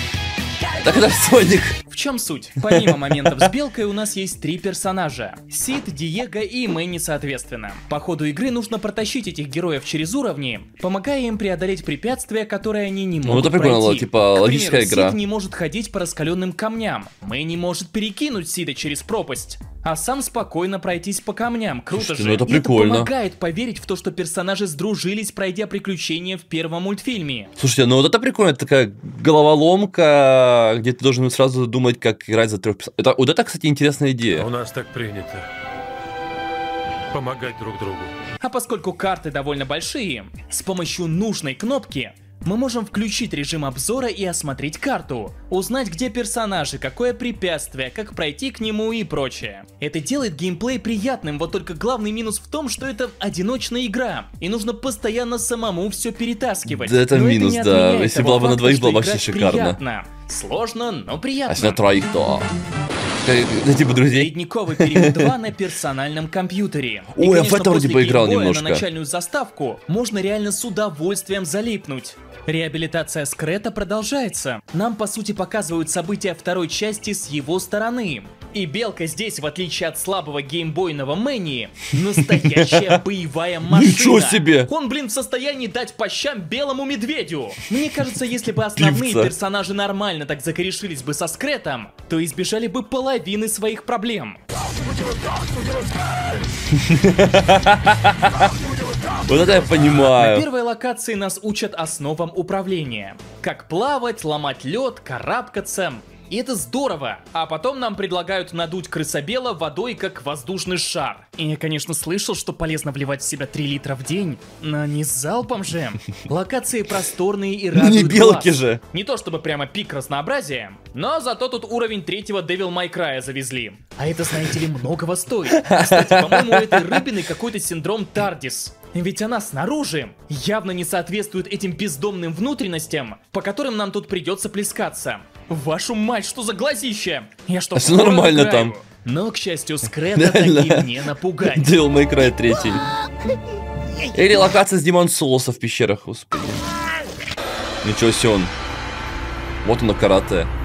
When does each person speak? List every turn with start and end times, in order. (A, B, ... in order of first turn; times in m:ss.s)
0:00.8-0:01.8 A
0:01.9-0:27.5 B
0:02.6-0:03.5 A
0:13.2-0:15.2 A
0:22.0-0:23.1 A
0:27.6-0:34.5 A
0:34.3-0:35.5 C
0:37.1-0:38.1 C
0:38.4-1:01.8 B
0:56.7-0:59.8 A
1:01.5-1:02.5 A
1:03.2-1:05.3 A
1:04.1-1:34.4 B
1:07.1-1:08.8 A
1:22.3-1:23.0 A
1:23.7-1:24.7 A
1:28.8-1:29.3 A
1:36.7-1:40.5 A
1:40.0-2:21.7 B
1:57.7-1:58.8 A
2:05.5-2:07.2 A
2:17.8-2:18.8 A
2:20.2-2:22.9 A
2:24.1-2:26.7 A
2:27.8-2:28.5 A
2:29.6-2:30.5 A